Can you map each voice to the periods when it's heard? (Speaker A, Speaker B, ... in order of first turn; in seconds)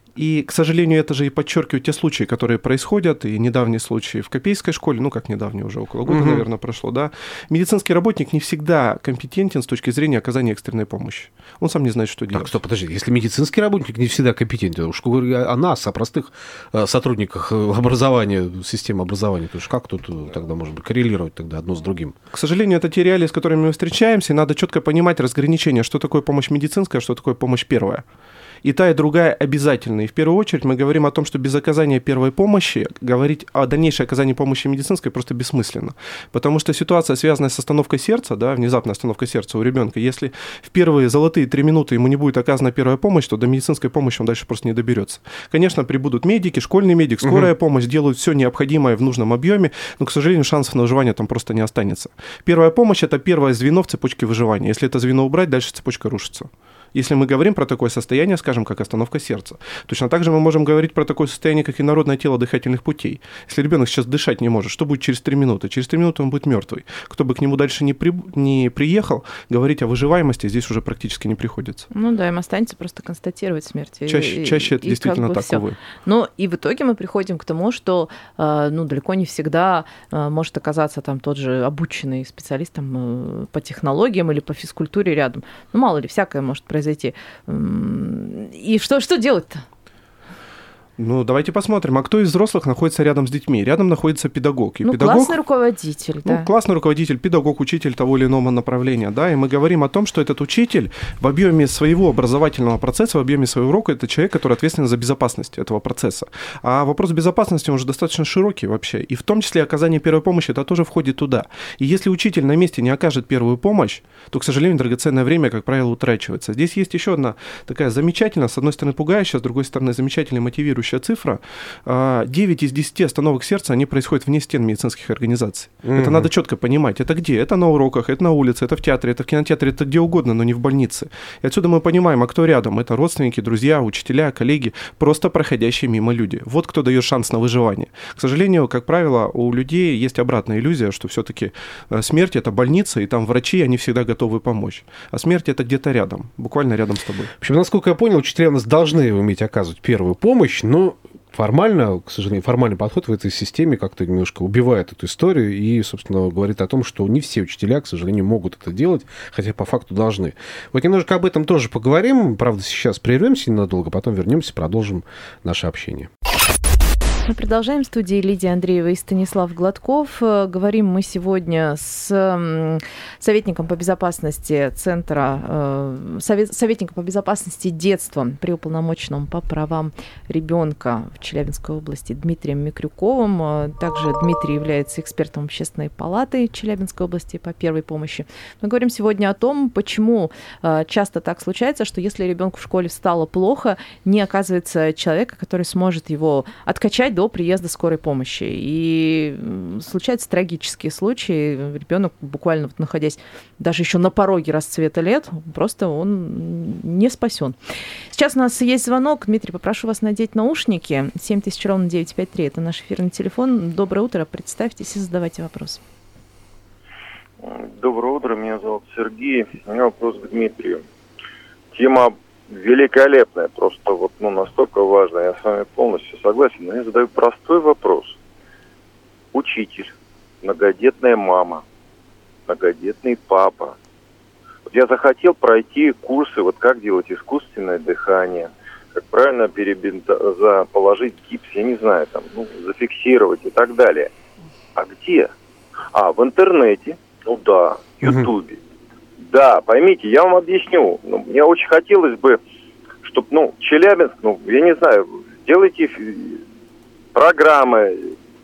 Speaker A: 0.1-12.5, 22.3-28.0, 28.6-71.9, 74.1-75.8, 91.0-95.4, 96.2-147.3
Speaker B: 6.1-6.4, 12.3-22.1, 47.2-47.5, 125.8-126.3, 147.4-166.1, 248.0-248.3
Speaker C: 71.9-89.6, 94.8-96.5, 167.2-207.6, 208.1-215.8
Speaker D: 217.4-220.8, 221.7-228.2, 229.3-231.6, 232.5-233.7, 234.7-244.1, 244.8-245.3, 245.9-248.6, 249.2-252.4, 253.0-256.4, 257.1-258.0